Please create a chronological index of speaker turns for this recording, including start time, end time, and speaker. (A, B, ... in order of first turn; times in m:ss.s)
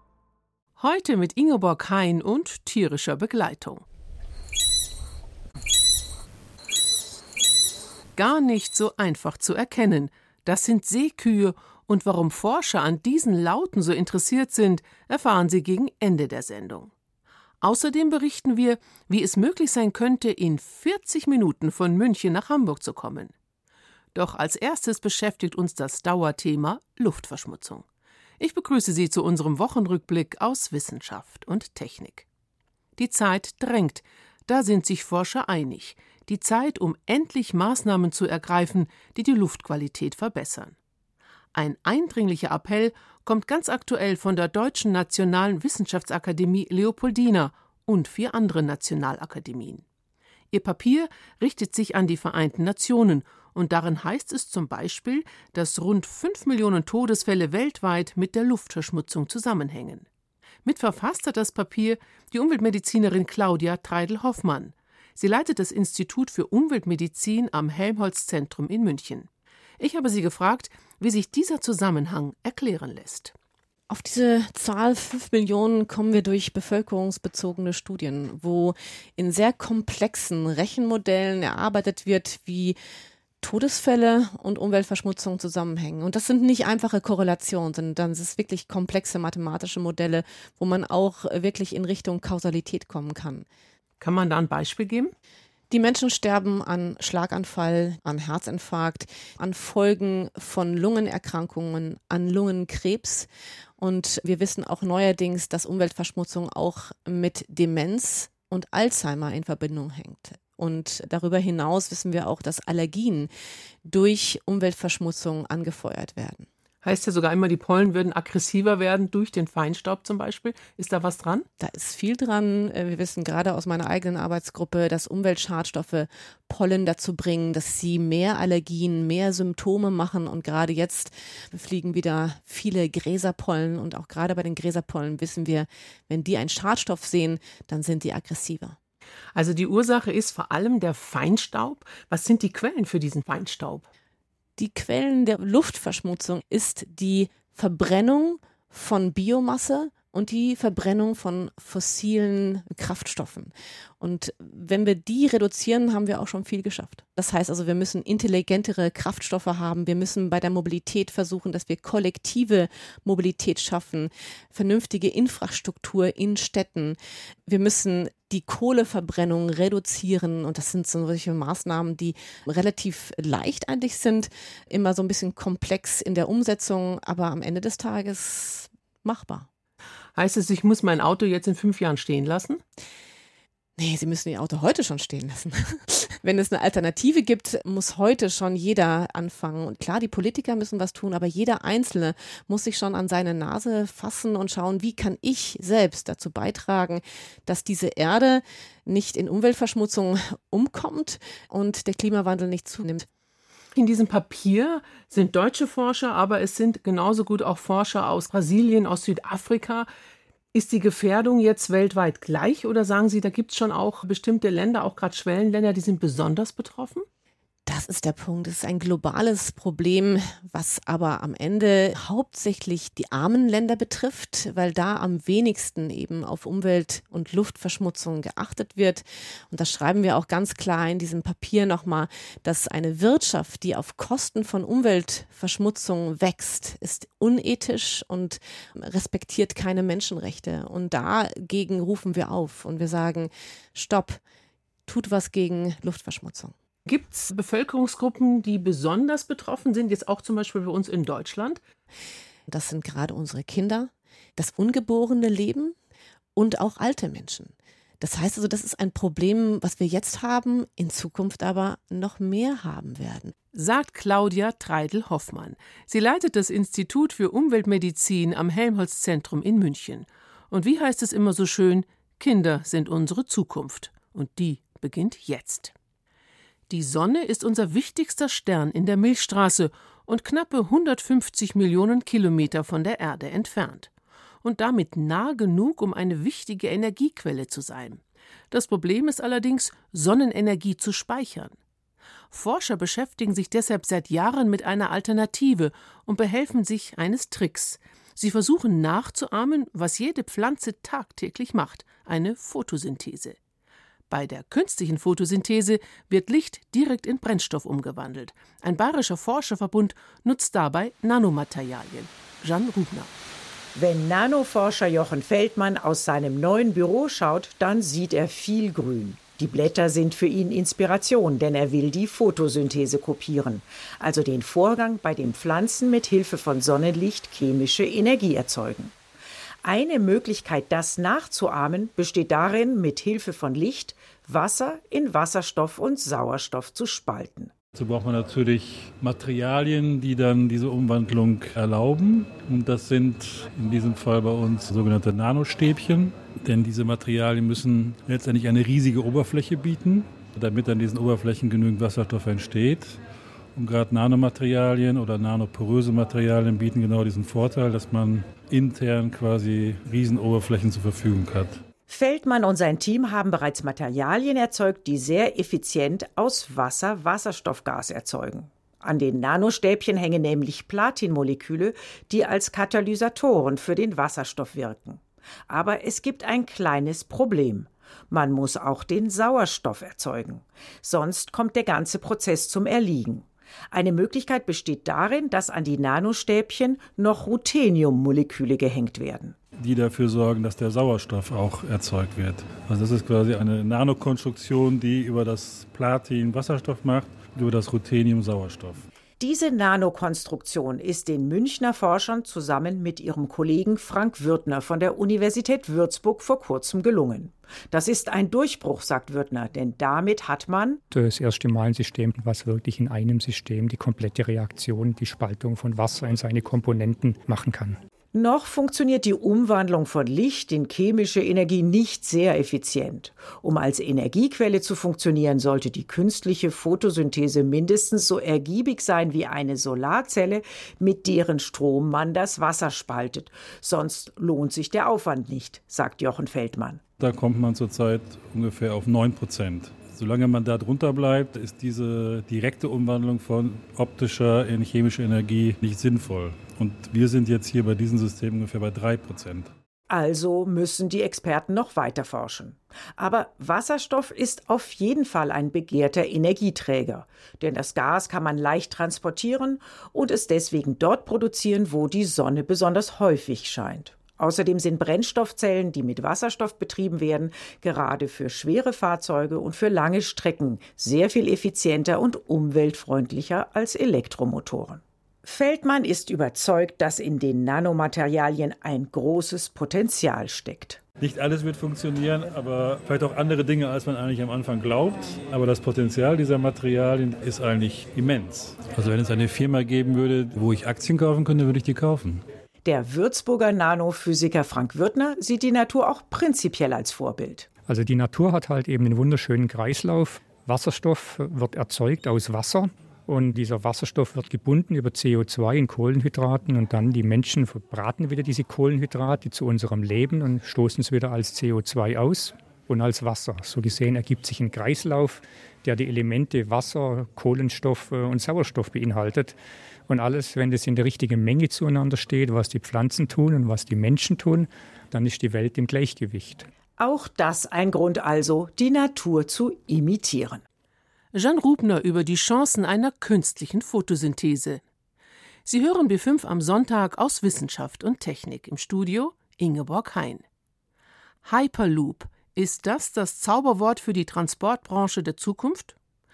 0:00.8-0:03.8 A
0:08.2-0:16.9 A
0:17.6-0:23.3 A
0:24.1-0:27.8 A
0:28.4-0:32.2 A
0:33.0-0:40.7 A
0:41.5-0:49.8 A
0:50.5-1:00.0 A
1:00.6-1:09.3 A
1:09.8-1:13.3 A
1:13.9-1:22.8 B
1:23.4-1:33.4 B
1:34.0-1:35.1 A
1:35.7-1:53.3 B
1:53.8-1:56.5 B
1:56.8-2:01.4 A
2:01.6-2:18.8 B
2:19.3-2:23.9 A
2:24.6-2:59.5 B
3:00.2-3:02.6 A
3:03.8-3:23.1 B
3:23.8-3:29.9 A
3:30.5-3:37.0 A
3:37.6-4:04.2 B
4:04.9-4:06.5 B
4:06.8-4:11.6 A
4:12.5-4:15.7 B
4:16.4-4:23.3 B
4:23.5-4:35.7 A
4:36.7-4:43.9 A
4:44.4-4:51.6 A
4:52.3-5:03.4 A
5:04.1-5:13.1 A
5:13.7-5:28.9 C
5:29.6-5:37.5 C
5:37.7-5:53.0 D
5:53.5-6:01.6 D
6:01.9-6:29.4 C
6:29.6-6:38.8 D
6:39.2-6:50.8 C
6:50.9-6:57.8 E
6:58.1-7:16.8 C
7:17.0-7:29.5 D
7:29.9-8:00.8 C
8:01.0-8:12.2 D
8:12.6-8:17.5 C
8:17.7-8:39.4 E
8:39.9-8:46.5 E
8:46.8-8:50.4 C
8:51.1-8:54.6 A
8:55.4-9:00.2 A
9:01.2-9:05.7 A